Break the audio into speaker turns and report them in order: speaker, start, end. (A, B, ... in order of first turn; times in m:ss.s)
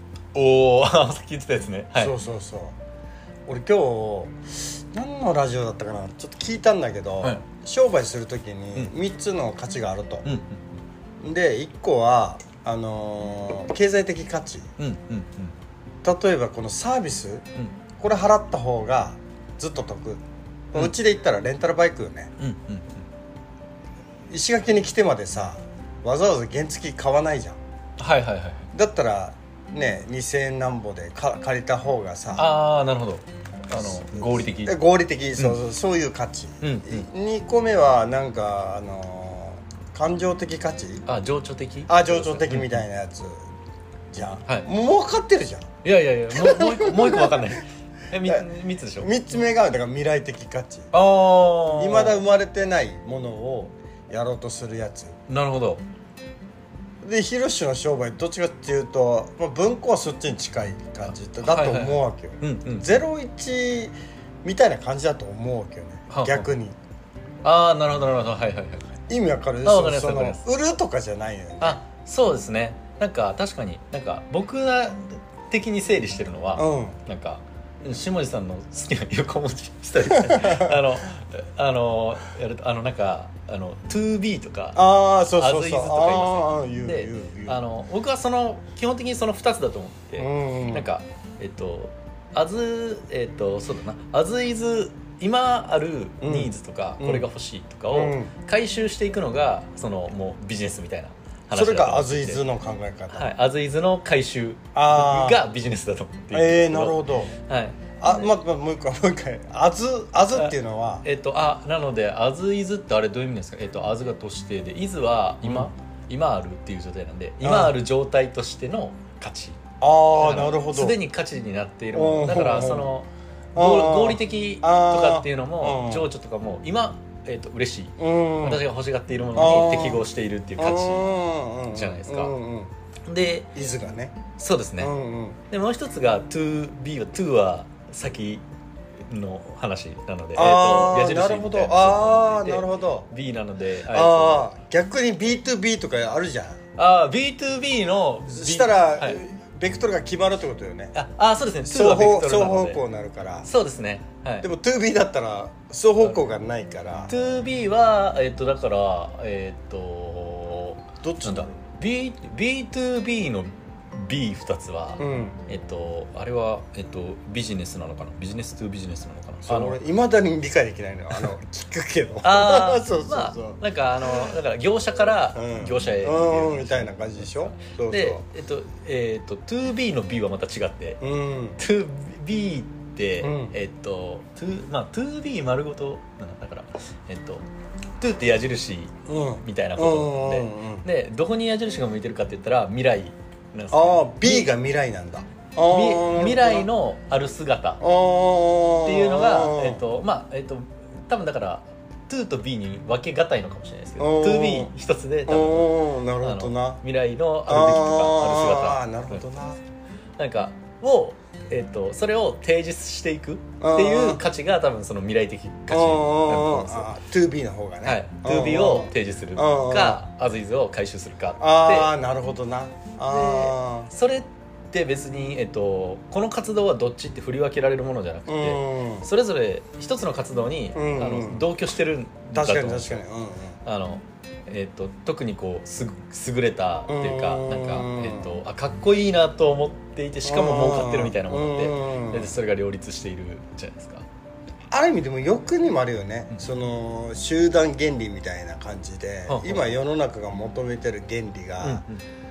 0:00.3-0:02.1 A
0:01.9-0:02.8 B
0:03.5-0:10.3 B
0:10.2-0:10.6 A
0:11.2-0:14.7 B
0:14.8-0:15.5 A
0:16.0-0:17.4 B
0:18.0-0:22.3 B
0:22.4-0:23.0 A
0:24.3-0:27.6 B
0:28.0-0:28.7 A
0:28.7-0:32.5 B
0:32.3-0:34.8 A
0:33.7-0:41.0 B
0:36.6-0:37.0 A
0:41.0-0:42.8 A
0:41.9-0:43.4 B
0:44.1-0:45.7 B
0:45.8-0:49.1 A
0:46.3-0:47.5 B
0:49.0-0:50.9 B
0:50.9-0:52.2 A
0:51.7-0:55.2 B
0:55.3-0:55.8 A
0:57.0-1:06.8 B
1:01.4-1:02.9 A
1:06.1-1:06.5 A
1:07.4-1:09.0 A
1:09.1-1:11.8 B
1:09.6-1:10.4 A
1:11.6-1:24.8 A
1:16.6-1:17.0 B
1:20.1-1:20.8 B
1:24.8-1:27.6 B
1:25.4-1:42.4 A
1:30.2-1:30.9 B
1:36.2-1:37.2 B
1:37.9-1:38.3 B
1:41.5-1:43.3 B
1:43.1-1:48.3 A
1:44.7-1:45.4 B
1:46.3-1:47.4 B
1:48.0-1:51.0 B
1:50.3-1:59.6 A
1:55.4-1:55.7 B
1:57.4-1:57.7 B
1:59.8-2:01.0 B
2:00.2-2:11.1 A
2:01.9-2:02.9 B
2:03.5-2:06.1 B
2:08.0-2:08.6 B
2:09.3-2:10.0 B
2:10.6-2:12.7 B
2:11.7-2:12.3 A
2:13.1-2:13.5 A
2:13.5-2:14.2 B
2:14.4-2:14.9 A
2:14.8-2:15.4 B
2:15.5-2:18.4 A
2:19.1-2:24.5 A
2:20.3-2:23.1 B
2:23.9-2:26.6 B
2:26.8-2:29.2 A
2:28.3-2:30.9 B
2:30.9-2:32.8 A
2:31.6-2:33.5 B
2:33.4-2:34.5 A
2:34.4-2:37.1 B
2:37.1-2:49.8 A
2:41.0-2:41.5 B
2:45.0-2:45.4 B
2:49.4-2:54.4 B
2:52.2-3:01.0 A
2:55.3-2:58.2 B
3:01.0-3:01.6 B
3:01.6-3:07.4 A
3:03.2-3:03.5 B
3:08.0-3:14.5 A
3:09.0-3:10.8 B
3:13.7-3:16.7 B
3:15.7-3:17.8 A
3:17.8-3:19.8 B
3:18.8-3:29.3 A
3:24.0-3:24.7 B
3:25.3-3:26.8 B
3:27.4-3:29.6 B
3:30.2-3:36.9 A
3:33.6-3:34.2 B
3:35.7-3:40.0 B
3:37.8-3:41.9 A
3:41.4-3:43.9 B
3:43.1-3:53.0 A
3:48.3-3:49.0 B
3:50.7-3:51.5 B
3:52.3-3:53.6 B
3:53.6-4:04.0 A
3:56.9-3:58.3 B
4:00.2-4:02.3 B
4:04.7-4:11.8 B
4:09.3-4:09.8 A
4:11.6-4:12.0 A